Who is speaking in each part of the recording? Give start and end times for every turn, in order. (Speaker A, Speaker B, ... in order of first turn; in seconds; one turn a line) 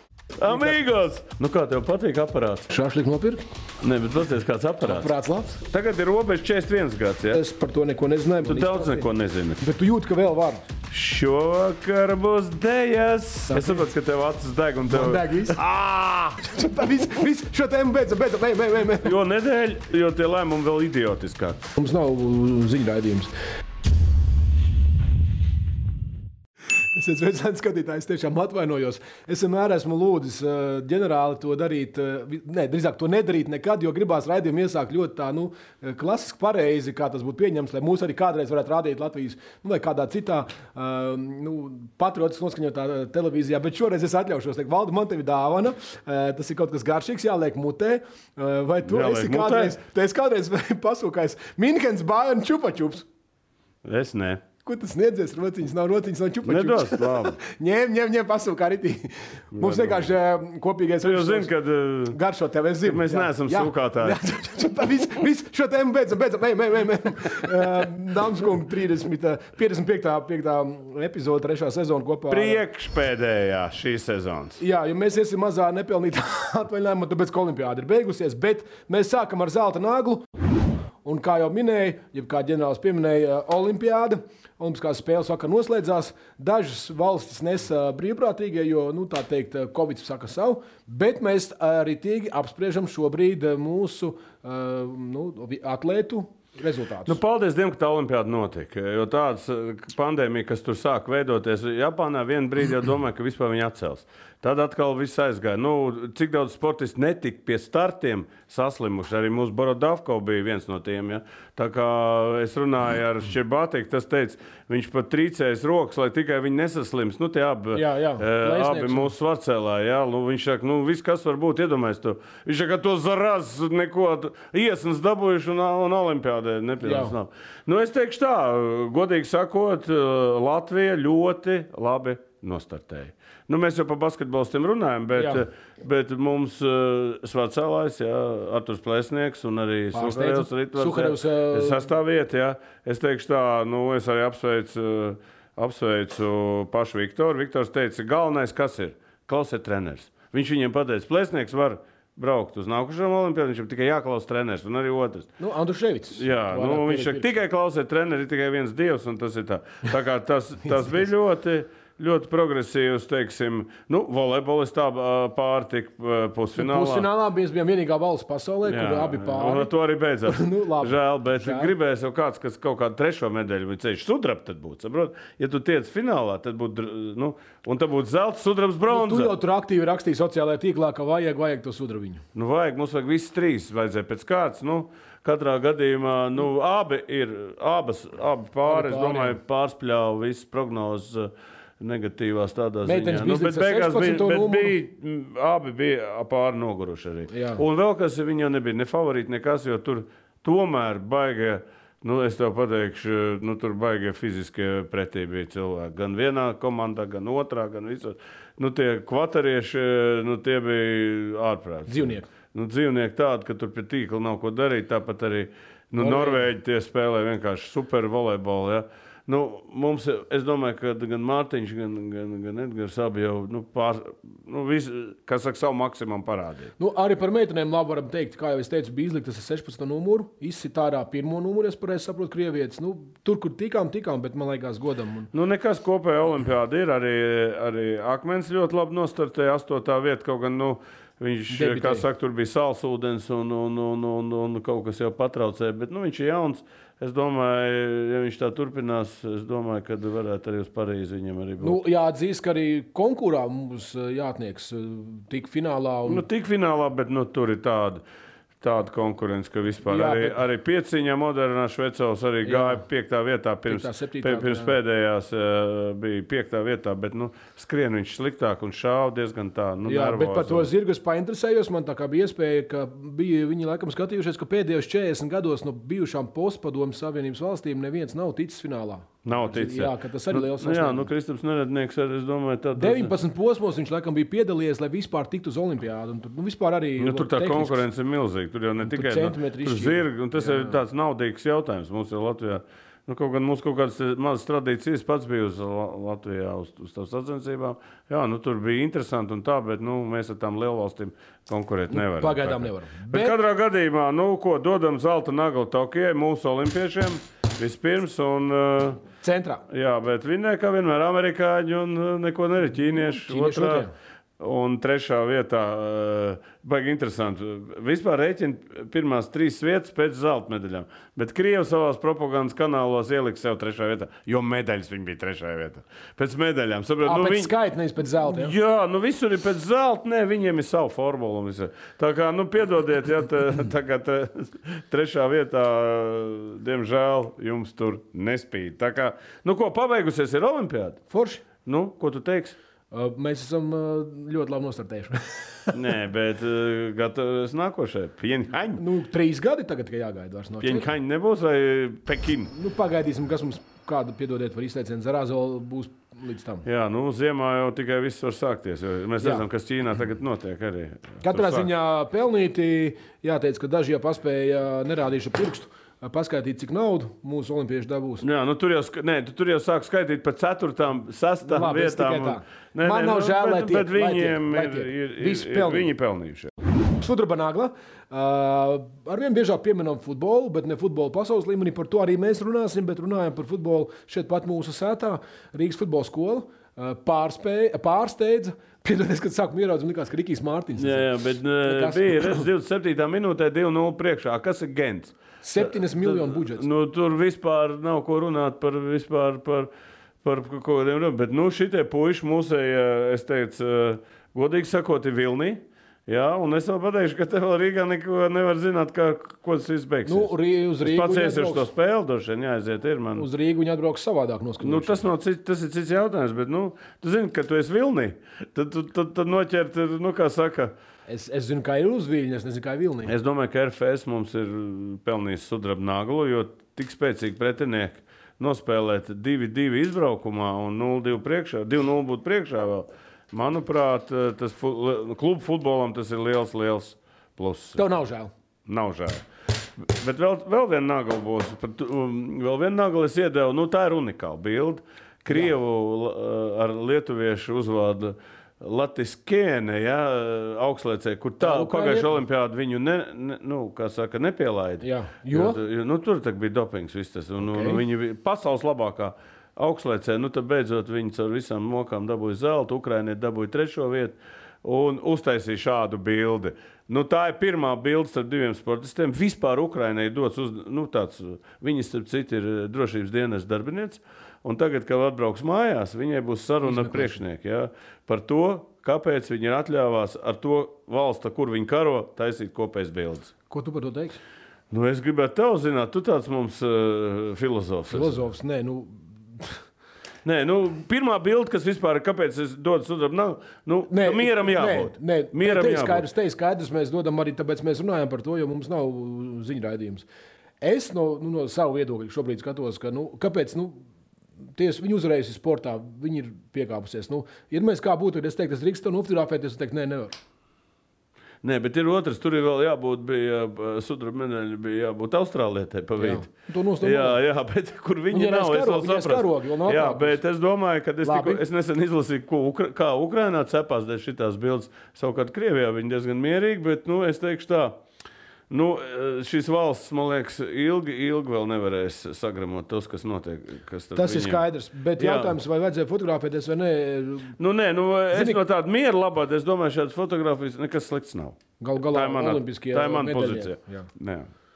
Speaker A: 0.4-2.7
Speaker B: 0.5-0.8
Speaker B: 2.7-3.4
Speaker A: 3.8-7.4
Speaker B: 4.8-5.6
Speaker B: 7.3-10.6
Speaker A: 8.4-9.6
Speaker A: 10.9-15.6
Speaker B: 13.5-13.9
Speaker B: 14.9-19.2
Speaker A: 19.0-21.6
Speaker B: 21.8-23.3
Speaker B: 26.9-53.1
Speaker A: 48.9-49.8
Speaker A: 53.8-54.4
Speaker B: 54.6-61.5
Speaker A: 56.5-57.4
Speaker A: 59.5-60.1
Speaker A: 61.0-62.2
Speaker B: 62.1-72.6
Speaker A: 62.8-64.2
Speaker A: 72.3-74.6
Speaker B: 74.6-80.2
Speaker B: 81.0-97.2
Speaker A: 97.0-155.3
Speaker B: 117.7-119.1
Speaker B: 126.8-127.2
Speaker B: 135.2-135.4
Speaker B: 139.9-141.9
Speaker B: 155.4-157.3
Speaker A: 156.1-167.1
Speaker B: 166.6-169.7
Speaker A: 168.7-179.3
Speaker B: 170.3-171.7
Speaker B: 178.9-182.2
Speaker A: 182.3-226.7
Speaker B: 188.7-189.4
Speaker B: 192.8-194.8
Speaker B: 197.3-197.6
Speaker B: 211.9-212.3
Speaker B: 216.0-216.4
Speaker B: 226.8-235.3
Speaker A: 235.3-251.8
Speaker B: 241.5-242.1
Speaker B: 251.6-256.2
Speaker A: 256.1-258.0
Speaker A: 258.6-270.7
Speaker B: 259.9-260.4
Speaker B: 262.4-262.9
Speaker B: 263.7-264.8
Speaker B: 269.8-281.1
Speaker A: 279.2-283.1
Speaker B: 282.8-287.8
Speaker A: 287.0-309.0
Speaker B: 288.8-290.8
Speaker B: 301.9-303.4
Speaker B: 309.2-309.6
Speaker A: 309.7-327.5
Speaker B: 313.0-313.9
Speaker B: 327.0-328.6
Speaker A: 328.2-341.0
Speaker B: 341.1-341.4
Speaker A: 341.6-342.6
Speaker B: 342.9-345.8
Speaker A: 345.7-348.8
Speaker B: 348.7-350.9
Speaker A: 350.6-352.5
Speaker B: 352.5-356.7
Speaker A: 356.6-361.7
Speaker B: 359.2-359.4
Speaker B: 361.2-368.2
Speaker A: 368.2-376.5
Speaker B: 371.4-375.9
Speaker B: 377.0-392.5
Speaker A: 390.8-399.7
Speaker B: 395.4-396.6
Speaker A: 400.2-413.3
Speaker B: 410.1-411.7
Speaker B: 413.1-415.0
Speaker A: 414.6-420.7
Speaker B: 421.1-423.1
Speaker A: 423.1-437.8
Speaker B: 437.8-438.3
Speaker A: 438.7-439.2
Speaker A: 439.8-483.3
Speaker B: 451.4-452.2
Speaker B: 454.8-455.6
Speaker B: 457.4-457.8
Speaker B: 476.6-477.2
Speaker B: 483.5-484.2
Speaker A: 484.7-488.2
Speaker B: 487.9-489.6
Speaker A: 490.2-496.1
Speaker B: 493.9-500.1
Speaker B: 500.6-503.8
Speaker B: 504.6-510.2
Speaker A: 511.4-516.3
Speaker B: 516.0-517.2
Speaker A: 516.8-527.8
Speaker B: 518.1-520.2
Speaker B: 521.0-521.4
Speaker A: 528.5-535.4
Speaker B: 534.0-537.4
Speaker A: 537.4-544.3
Speaker B: 538.1-538.4
Speaker B: 541.6-543.9